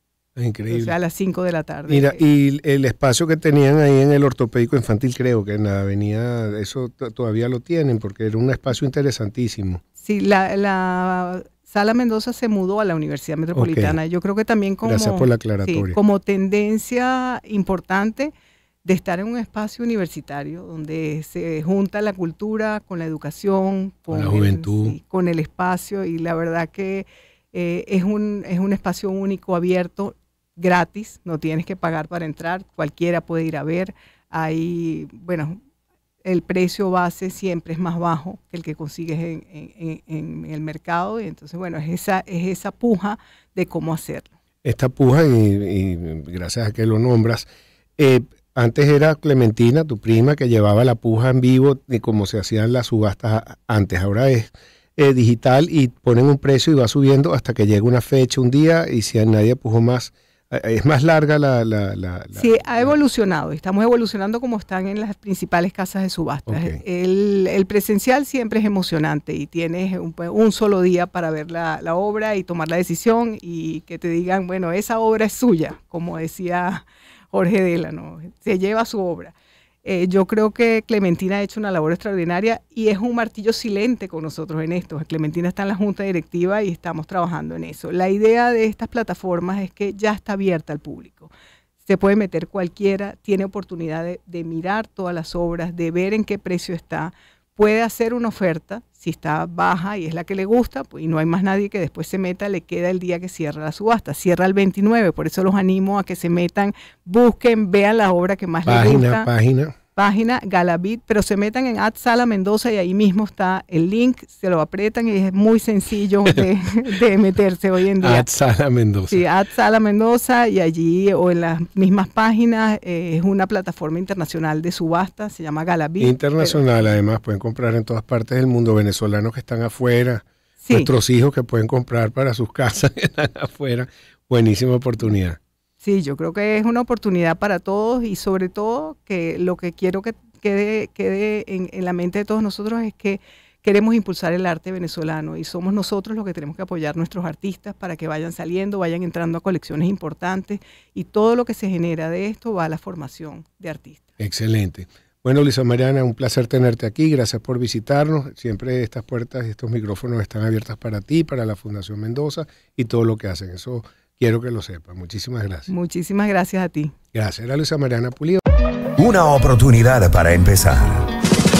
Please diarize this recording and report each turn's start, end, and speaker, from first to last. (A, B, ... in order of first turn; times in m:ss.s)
0:00.4-0:00.9 A
0:00.7-0:02.2 B
0:01.9-0:09.8 A
0:10.0-0:18.3 B
0:13.5-0:14.0 A
0:14.8-0:16.0 A
0:18.8-0:35.6 B
0:24.1-0:25.0 A
0:36.2-0:44.3 B
0:44.6-0:47.5 A
0:48.0-1:02.9 A
1:02.3-1:31.3 B
1:06.5-1:06.8 A
1:31.8-1:49.3 B
1:48.6-1:49.7 A
1:50.0-1:58.2 B
1:58.0-1:59.2 A
1:59.1-2:06.6 B
2:06.0-2:15.4 A
2:10.6-2:10.9 B
2:15.8-2:34.0 B
2:34.2-2:45.7 A
2:45.7-2:46.9 B
2:47.1-2:48.4 A
2:49.0-2:51.1 C